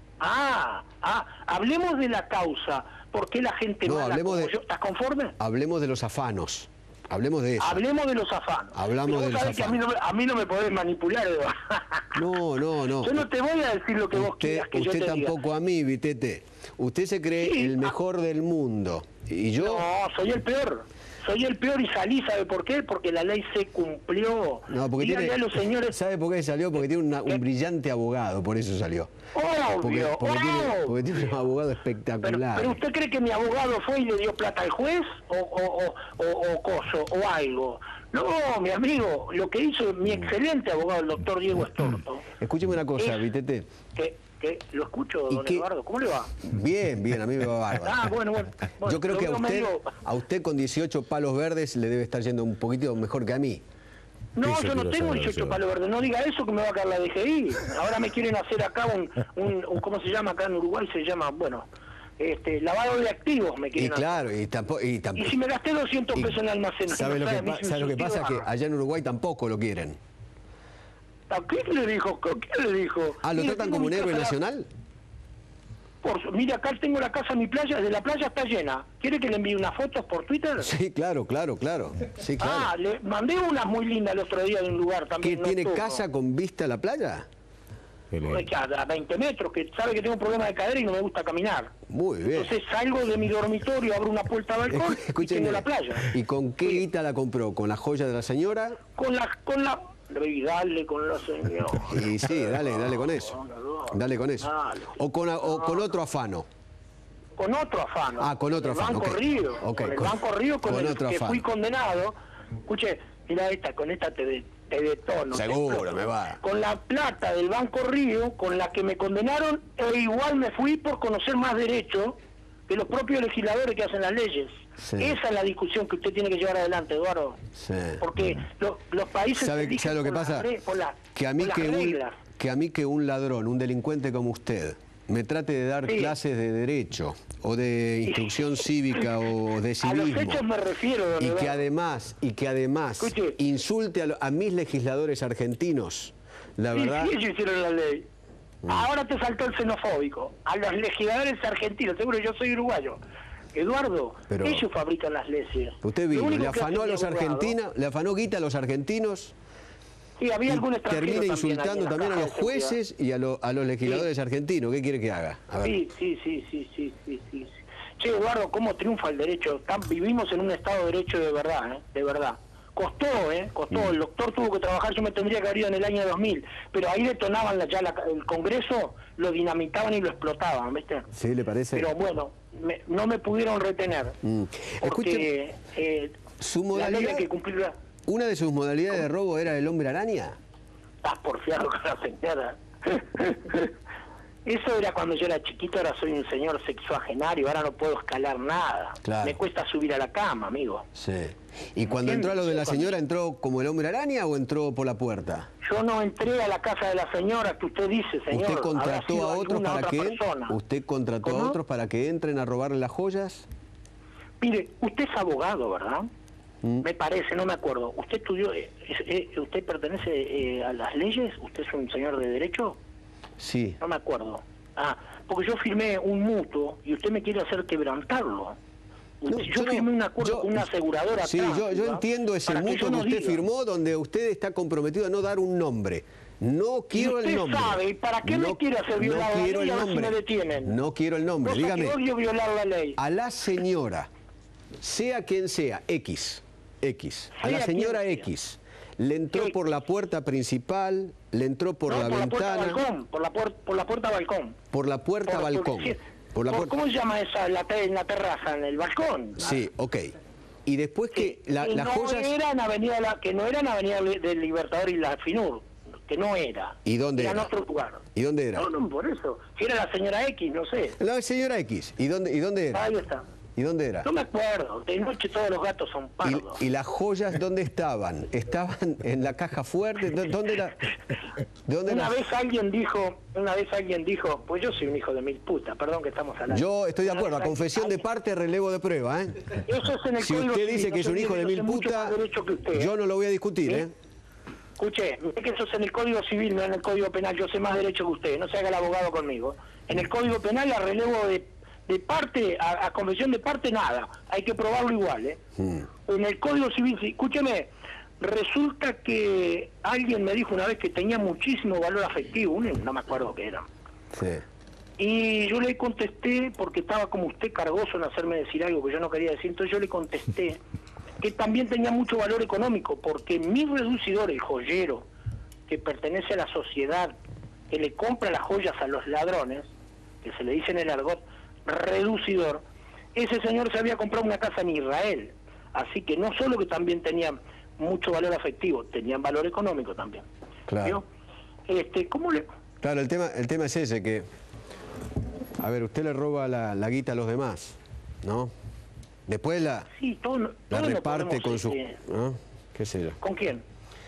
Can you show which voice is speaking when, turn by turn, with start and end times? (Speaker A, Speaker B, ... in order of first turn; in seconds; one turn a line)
Speaker A: 0.2-5.3
Speaker B: 3.8-4.5
Speaker B: 5.4-7.8
Speaker A: 7.6-12.4
Speaker B: 8.7-9.8
Speaker B: 12.1-13.2
Speaker A: 13.0-15.4
Speaker B: 14.1-19.9
Speaker A: 17.4-17.9
Speaker A: 19.6-26.0
Speaker B: 24.7-29.1
Speaker A: 29.3-31.2
Speaker B: 29.8-32.8
Speaker A: 32.2-42.2
Speaker B: 42.4-43.7
Speaker A: 43.0-43.2
Speaker A: 43.9-46.4
Speaker B: 45.3-45.6
Speaker B: 46.4-48.1
Speaker A: 47.8-49.9
Speaker B: 48.8-53.6
Speaker A: 54.4-61.6
Speaker A: 62.2-64.2
Speaker B: 63.8-65.3
Speaker A: 65.2-68.5
Speaker B: 66.9-70.0
Speaker A: 71.3-74.3
Speaker B: 73.2-74.7
Speaker A: 76.0-80.7
Speaker B: 80.6-82.7
Speaker A: 82.4-86.0
Speaker B: 85.2-87.2
Speaker A: 88.2-91.7
Speaker B: 91.9-92.5
Speaker A: 92.3-96.1
Speaker B: 94.7-98.8
Speaker A: 99.0-105.8
Speaker B: 101.9-103.3
Speaker B: 103.9-106.5
Speaker A: 107.4-112.1
Speaker B: 108.2-110.1
Speaker B: 110.7-111.4
Speaker A: 112.7-127.4
Speaker B: 115.3-116.4
Speaker B: 124.8-125.2
Speaker B: 127.6-128.0
Speaker A: 128.0-132.2
Speaker B: 129.4-130.5
Speaker B: 131.1-140.4
Speaker A: 135.8-136.2
Speaker A: 138.1-139.1
Speaker A: 139.8-141.6
Speaker B: 141.2-147.1
Speaker A: 143.0-143.4
Speaker A: 146.7-148.1
Speaker A: 148.6-153.0
Speaker A: 153.5-157.6
Speaker B: 154.3-154.6
Speaker B: 155.8-159.3
Speaker A: 160.2-162.8
Speaker B: 160.5-165.8
Speaker A: 165.6-181.1
Speaker B: 181.1-181.9
Speaker A: 181.7-184.2
Speaker B: 184.2-185.3
Speaker A: 184.8-186.2
Speaker B: 186.4-187.3
Speaker A: 186.7-187.7
Speaker B: 188.1-190.3
Speaker A: 191.0-193.7
Speaker A: 194.4-200.8
Speaker B: 199.0-199.4
Speaker B: 200.9-205.5
Speaker A: 201.8-202.9
Speaker A: 205.6-210.6
Speaker B: 208.3-213.4
Speaker A: 211.2-211.6
Speaker A: 214.4-216.1
Speaker A: 216.8-222.8
Speaker B: 223.4-223.8
Speaker A: 223.8-228.6
Speaker A: 229.2-233.4
Speaker B: 229.3-230.7
Speaker B: 231.2-242.0
Speaker A: 236.9-240.8
Speaker A: 241.4-243.0
Speaker B: 243.0-244.1
Speaker B: 244.8-252.8
Speaker A: 247.3-248.3
Speaker A: 249.3-249.8
Speaker A: 251.9-254.6
Speaker B: 254.7-256.7
Speaker A: 255.2-259.5
Speaker B: 259.4-260.1
Speaker B: 260.6-262.3
Speaker A: 261.1-268.0
Speaker B: 266.9-267.5
Speaker B: 268.1-268.7
Speaker A: 268.5-271.0
Speaker B: 271.0-272.8
Speaker A: 272.7-273.2
Speaker B: 273.6-274.1
Speaker A: 274.0-276.6
Speaker B: 276.2-280.8
Speaker B: 281.6-282.2
Speaker A: 281.9-288.0
Speaker B: 286.5-289.4
Speaker A: 289.6-292.9
Speaker B: 290.2-292.2
Speaker B: 292.7-293.9
Speaker A: 294.8-305.4
Speaker B: 305.6-305.8
Speaker A: 306.1-307.7
Speaker A: 308.2-313.6
Speaker B: 314.1-314.4
Speaker A: 315.0-320.6
Speaker A: 321.2-325.1
Speaker A: 325.7-327.1
Speaker A: 327.7-329.7
Speaker A: 330.2-332.6
Speaker A: 333.1-340.2
Speaker B: 340.7-341.0
Speaker A: 341.7-342.5
Speaker B: 342.8-344.2
Speaker B: 345.6-348.5
Speaker B: 349.3-349.9
Speaker A: 349.9-352.0
Speaker B: 350.7-353.2
Speaker A: 353.2-353.6